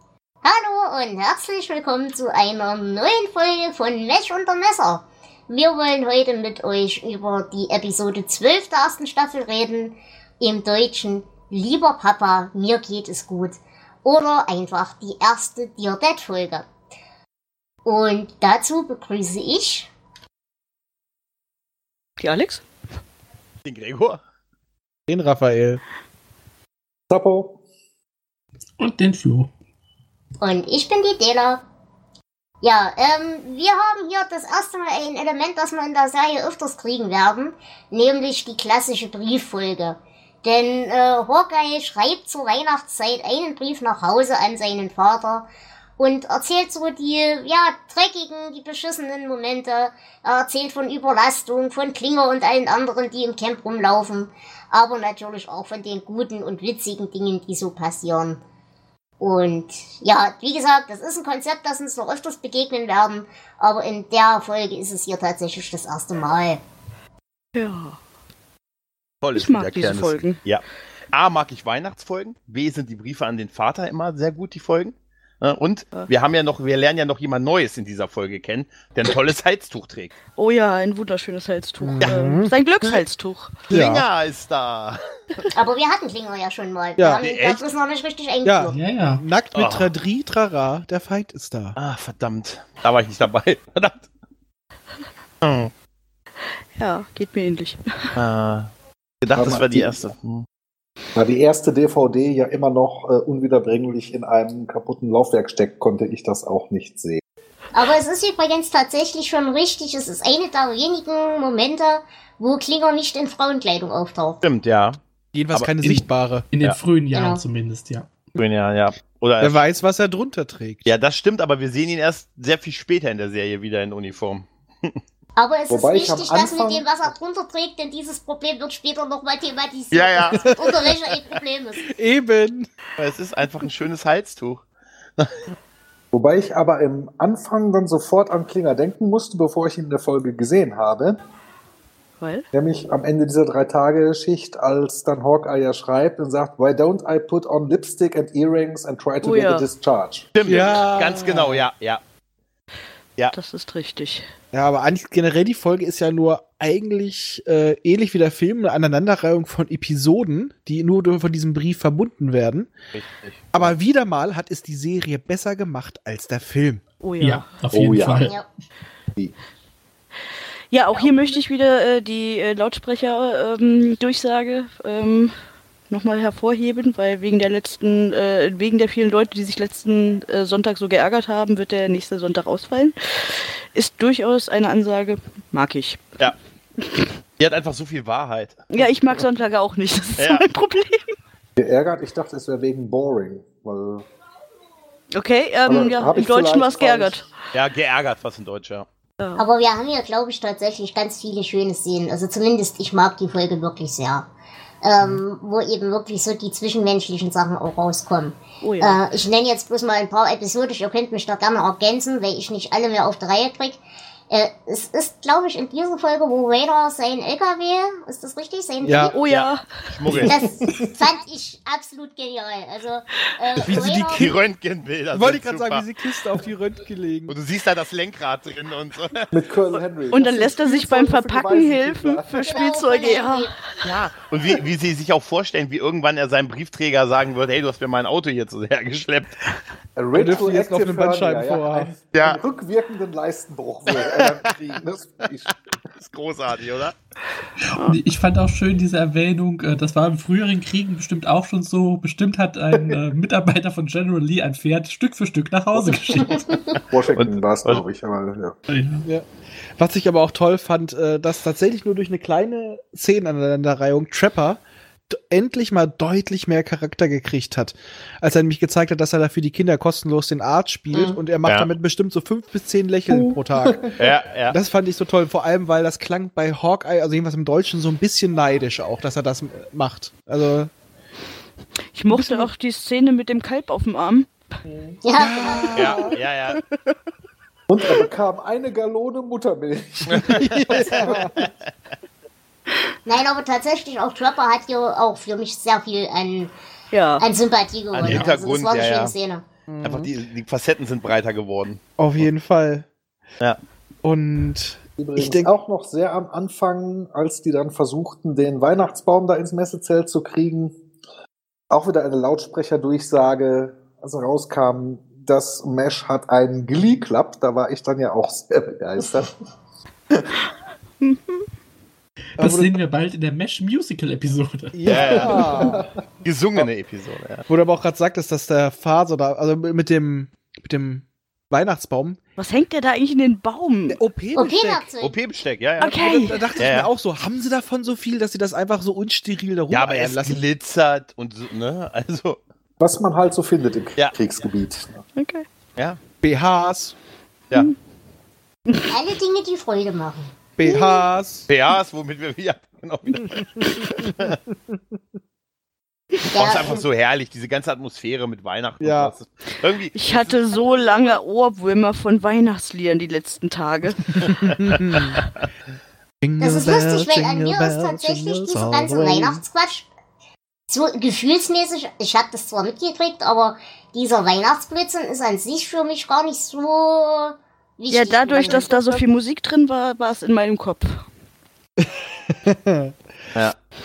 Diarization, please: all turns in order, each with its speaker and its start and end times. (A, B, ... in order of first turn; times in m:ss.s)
0:00.4-0:16.6 A
0:17.8-0:19.9 A
0:22.2-0:22.6 B
0:23.6-0:24.2 C
0:25.1-0:25.8 D
0:27.1-0:27.6 E
0:28.8-0:29.5 F
0:30.4-0:31.6 A
0:32.6-0:45.5 A
0:46.0-0:58.4 A
0:59.2-1:06.6 A
1:07.6-1:08.0 B
1:09.2-1:20.1 C
1:09.3-1:10.4 B
1:20.4-1:23.7 B
1:21.8-1:23.0 D
1:23.7-1:25.1 C
1:23.7-1:24.0 D
1:25.5-1:28.8 A
1:27.0-1:27.2 D
1:27.2-1:27.6 C
1:28.4-1:31.8 D
1:28.7-1:29.2 F
1:29.6-1:29.9 C
1:31.8-1:34.1 C
1:35.4-1:35.7 C
1:36.8-1:38.2 B
1:38.1-1:38.7 C
1:39.2-1:40.4 C
1:39.3-1:39.9 E
1:41.2-1:47.2 E
1:47.7-1:54.4 A
1:54.4-1:55.0 C
1:55.3-1:56.5 D
1:55.5-1:56.0 C
1:56.5-1:58.1 F
1:57.1-1:57.4 A
1:58.4-1:59.6 C
1:59.4-2:00.9 D
2:00.8-2:05.0 C
2:05.4-2:11.9 A
2:05.7-2:07.1 E
2:09.9-2:10.5 C
2:10.3-2:10.9 D
2:11.9-2:12.7 D
2:13.0-2:14.6 C
2:16.1-2:21.2 E
2:22.2-2:22.5 B
2:22.5-2:30.3 E
2:29.2-2:29.7 B
2:30.3-2:32.0 C
2:30.4-2:31.7 D
2:33.3-2:34.3 B
2:34.5-2:42.7 D
2:42.9-2:43.7 C
2:43.5-2:46.8 D
2:47.0-2:47.5 B
2:47.2-2:48.4 F
2:47.7-2:48.3 E
2:50.7-2:55.3 B
2:55.9-3:06.2 B
3:06.8-3:07.1 B
3:07.4-3:08.7 C
3:08.7-3:11.1 B
3:10.2-3:10.4 C
3:11.6-3:14.1 E
3:15.1-3:17.3 B
3:15.7-3:17.2 E
3:17.5-3:18.8 C
3:19.2-3:19.5 B
3:19.4-3:24.2 A
3:24.8-3:33.8 A
3:28.6-3:29.0 B
3:34.3-3:39.2 A
3:38.8-3:39.2 D
3:39.1-3:39.8 B
3:39.3-3:40.4 C
3:40.2-3:44.3 A
3:43.6-3:44.4 D
3:44.2-3:45.8 C
3:45.1-3:47.3 D
3:47.3-3:49.3 C
3:49.3-3:52.5 E
3:50.1-3:53.5 B
3:52.4-3:53.5 A
3:53.8-3:59.4 C
4:00.0-4:05.5 E
4:00.1-4:01.9 D
4:02.1-4:02.4 C
4:05.5-4:06.9 C
4:07.8-4:16.8 F
4:15.8-4:16.3 E
4:16.9-4:18.6 E
4:17.1-4:17.8 C
4:18.7-4:19.1 F
4:19.8-4:33.9 D
4:30.9-4:31.2 A
4:33.7-4:34.0 E
4:34.0-4:34.6 C
4:34.5-4:40.7 D
4:41.9-4:44.3 B
4:42.1-4:42.5 D
4:44.6-4:45.0 E
4:45.0-4:45.9 A
4:45.2-4:46.2 D
4:45.8-4:46.6 C
4:46.5-4:46.9 B
4:47.7-4:51.5 E
4:50.1-4:51.5 C
4:50.1-4:51.4 D
4:53.1-4:56.5 A
4:56.9-4:57.2 B
4:57.2-4:59.4 A
4:57.9-4:59.1 C
4:59.7-5:00.1 D
4:59.8-5:02.2 C
5:02.0-5:02.9 D
5:04.0-5:05.5 D
5:05.0-5:10.8 E
5:11.7-5:19.4 E
5:21.0-5:21.4 B
5:22.4-5:25.4 F
5:22.4-5:22.8 D
5:24.7-5:25.8 D
5:24.9-5:27.4 C
5:25.0-5:25.9 E
5:27.5-5:32.2 D
5:32.4-5:34.0 B
5:33.9-5:34.9 D
5:34.4-5:35.2 A
5:35.0-5:36.0 C
5:35.8-5:36.5 B
5:35.8-5:40.4 D
5:36.6-5:36.9 C
5:39.7-5:42.4 C
5:42.8-5:45.0 E
5:45.2-5:45.4 B
5:46.2-5:47.0 D
5:48.9-5:50.3 A
5:50.6-5:51.5 D
5:50.6-5:51.0 B
5:51.5-5:54.4 C
5:53.6-5:55.0 D
5:56.3-5:56.8 A
5:56.4-6:00.2 C
5:58.8-5:59.1 D
5:59.9-6:04.3 B
6:04.2-6:05.2 D
6:04.5-6:05.2 C
6:06.2-6:09.4 D
6:06.4-6:09.9 A
6:10.7-6:19.0 A
6:17.9-6:21.1 B
6:21.8-6:22.9 D